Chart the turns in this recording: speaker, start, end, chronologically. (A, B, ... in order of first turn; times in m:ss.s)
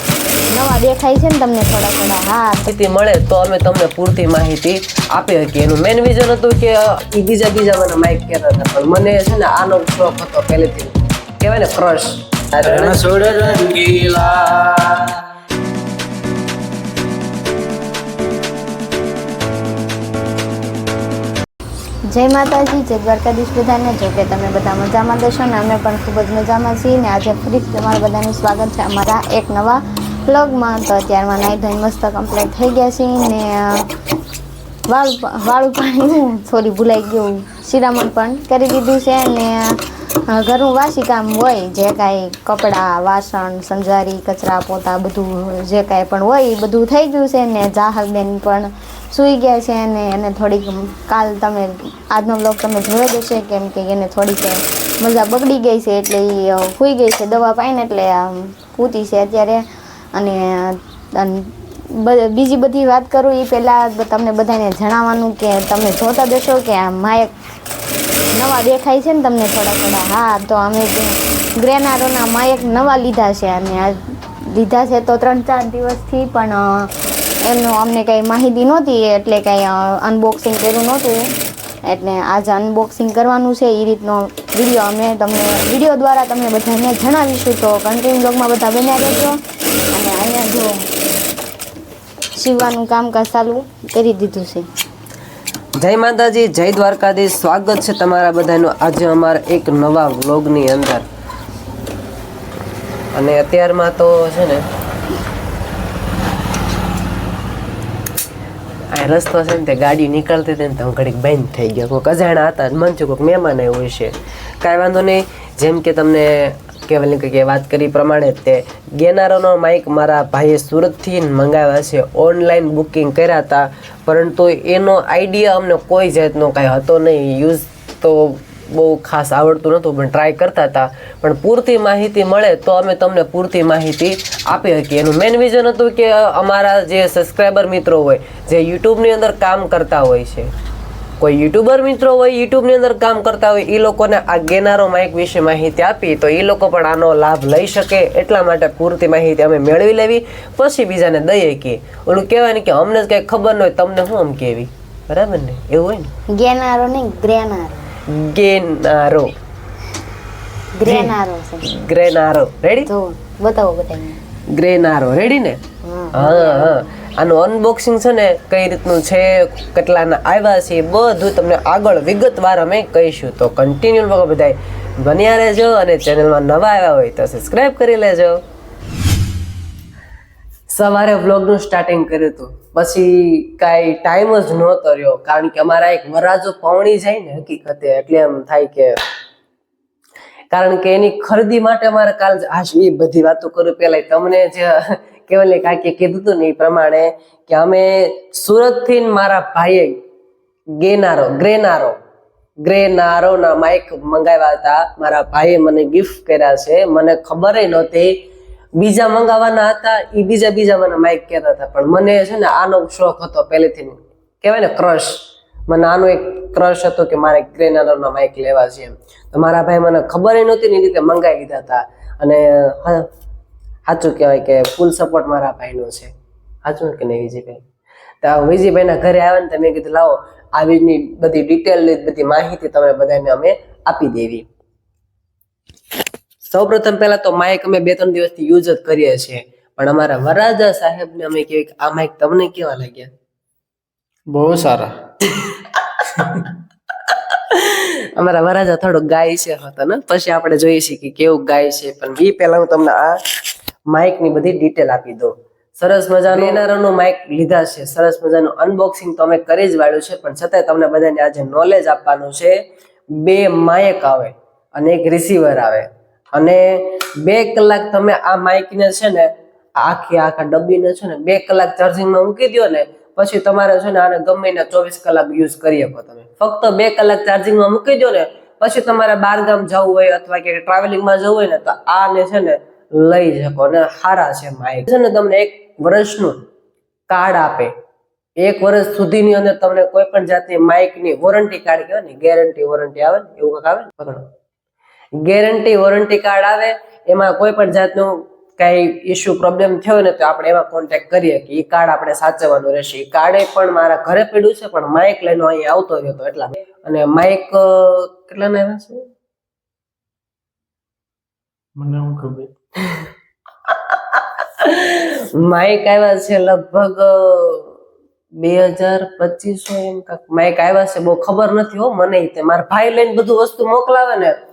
0:00.5-0:02.7 A
0:02.7-0:13.0 B
0:12.6-0:15.1 C
0:22.1-0:33.8 A
0:34.9-0:59.6 A
1:00.1-1:07.3 A
1:08.3-1:14.0 A
1:14.5-1:16.9 A
1:17.4-1:21.2 A
1:21.9-1:29.4 A
1:29.9-1:30.8 A
1:32.4-1:34.7 A
1:35.8-1:41.0 B
1:43.1-1:44.6 B
1:48.9-2:20.5 B
2:21.2-2:36.1 B
2:36.3-2:37.8 A
2:38.1-2:39.3 B
2:40.8-2:41.6 A
2:40.8-2:41.1 B
2:41.7-2:42.9 B
2:42.9-2:44.2 A
2:44.5-2:45.6 B
2:45.8-2:46.8 A
2:46.1-2:58.4 B
3:00.7-3:09.0 B
3:10.5-3:20.0 B
3:20.8-3:22.0 B
3:22.6-3:28.2 B
3:28.8-3:43.0 B
3:43.9-3:46.1 B
3:46.6-3:47.6 B
3:48.2-3:54.5 B
3:56.4-4:03.1 B
4:04.3-4:04.9 C
4:05.4-4:06.5 B
4:07.1-4:13.2 B
4:13.9-4:22.6 B
4:23.2-4:46.4 B
4:47.1-4:47.7 B
4:48.4-4:54.3 B
4:55.2-5:09.0 B
5:11.8-5:12.5 C
5:13.7-5:17.7 B
5:18.4-5:24.4 B